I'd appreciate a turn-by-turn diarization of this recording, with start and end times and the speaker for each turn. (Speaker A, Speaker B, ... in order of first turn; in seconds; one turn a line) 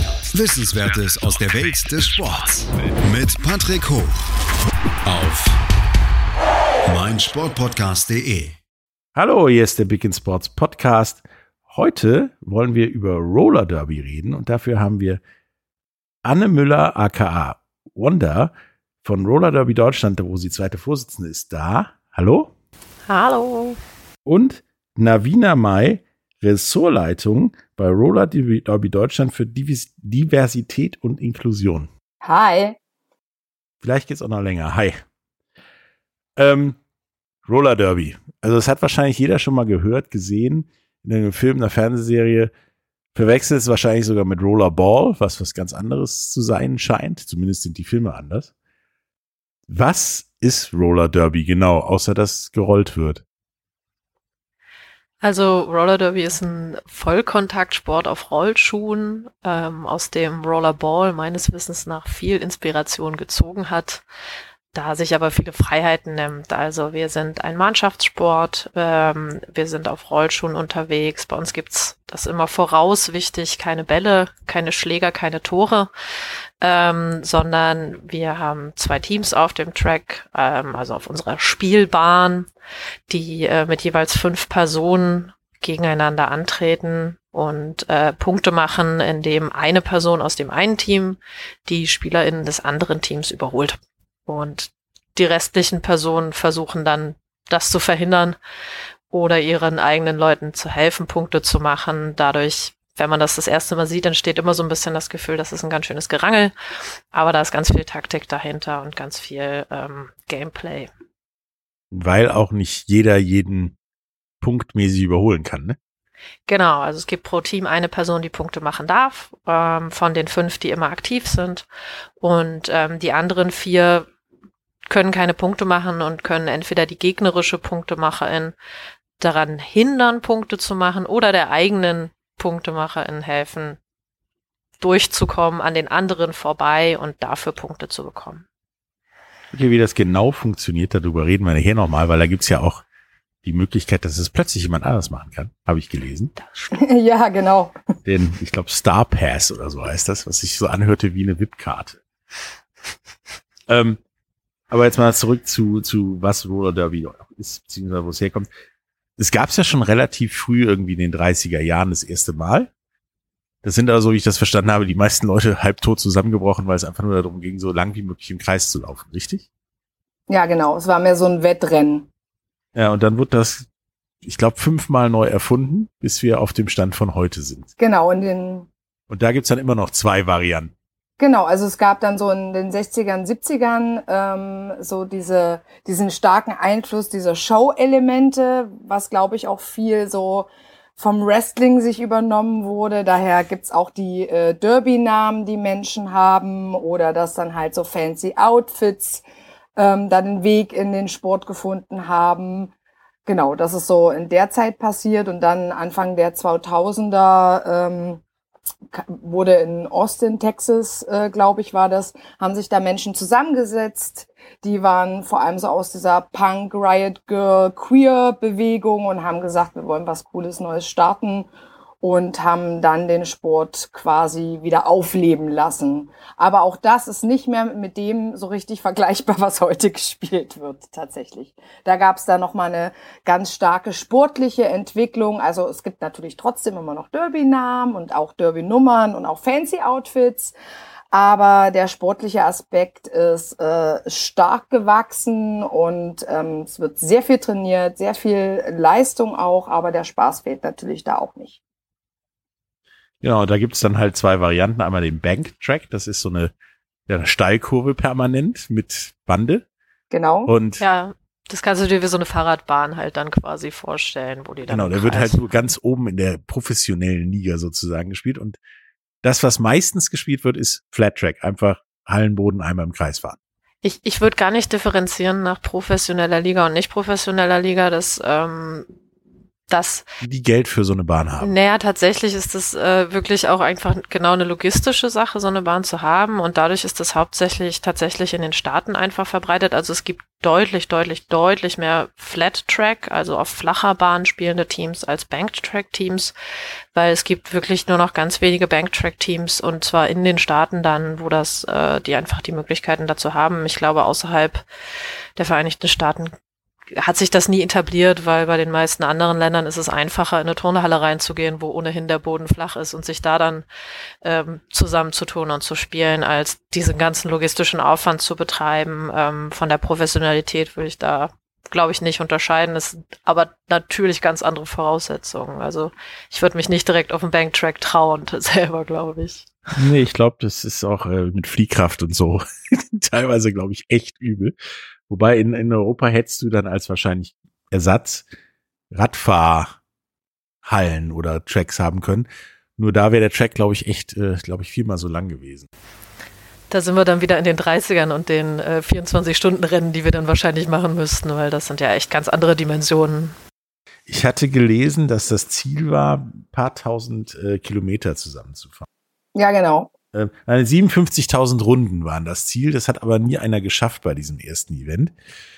Speaker A: 0.3-4.1
Speaker A: 5.0-5.6
Speaker A: 6.8-8.6
Speaker B: 9.2-15.2
Speaker B: 16.2-18.5
Speaker B: 19.0-22.5
Speaker C: 23.1-23.8
Speaker B: 24.2-31.9
Speaker D: 32.2-32.8
Speaker B: 33.8-35.0
Speaker B: 36.4-36.8
Speaker B: 37.5-42.5
Speaker B: 43.1-48.5
Speaker B: 49.7-53.2
Speaker C: 55.2-64.0
Speaker C: 64.7-75.9
Speaker C: 76.6-82.5
Speaker C: 83.1-98.4
Speaker C: 99.1-106.5
Speaker C: 107.1-110.9
Speaker B: 111.9-113.8
Speaker B: 114.4-115.8
Speaker C: 116.5-121.6
Speaker C: 122.2-124.1
Speaker C: 124.9-128.5
Speaker C: 129.2-133.8
Speaker C: 134.8-138.4
Speaker B: 139.5-142.8
Speaker B: 143.4-146.3
Speaker D: 146.7-147.7
Speaker B: 148.1-152.0
Speaker B: 153.7-154.0
Speaker B: 154.7-158.5
Speaker B: 159.2-162.7
Speaker B: 163.6-169.4
Speaker D: 170.3-172.1
Speaker B: 172.7-173.7
Speaker B: 174.2-177.7
Speaker D: 177.8-178.7
Speaker B: 179.1-180.7
Speaker D: 181.2-199.2
Speaker D: 199.8-202.7
Speaker D: 203.2-208.2
Speaker D: 208.9-221.5
Speaker D: 222.0-240.5
Speaker D: 241.1-251.6
Speaker B: 253.2-256.5
Speaker B: 257.1-259.6
Speaker D: 260.1-260.5
Speaker B: 260.4-260.8
Speaker C: 260.8-265.4
Speaker B: 264.7-268.6
Speaker B: 269.2-273.4
Speaker C: 273.8-278.9
Speaker C: 279.7-280.0
Speaker B: 280.2-281.5
Speaker C: 281.4-296.3
Speaker C: 296.9-304.6
Speaker C: 305.4-306.3
Speaker C: 306.9-313.6
Speaker C: 314.2-329.5
Speaker B: 329.7-334.5
Speaker B: 335.1-338.3
Speaker B: 338.9-339.8
Speaker B: 340.6-345.7
Speaker C: 346.7-353.3
Speaker B: 354.1-358.9
Speaker D: 359.3-359.9
Speaker B: 360.1-365.1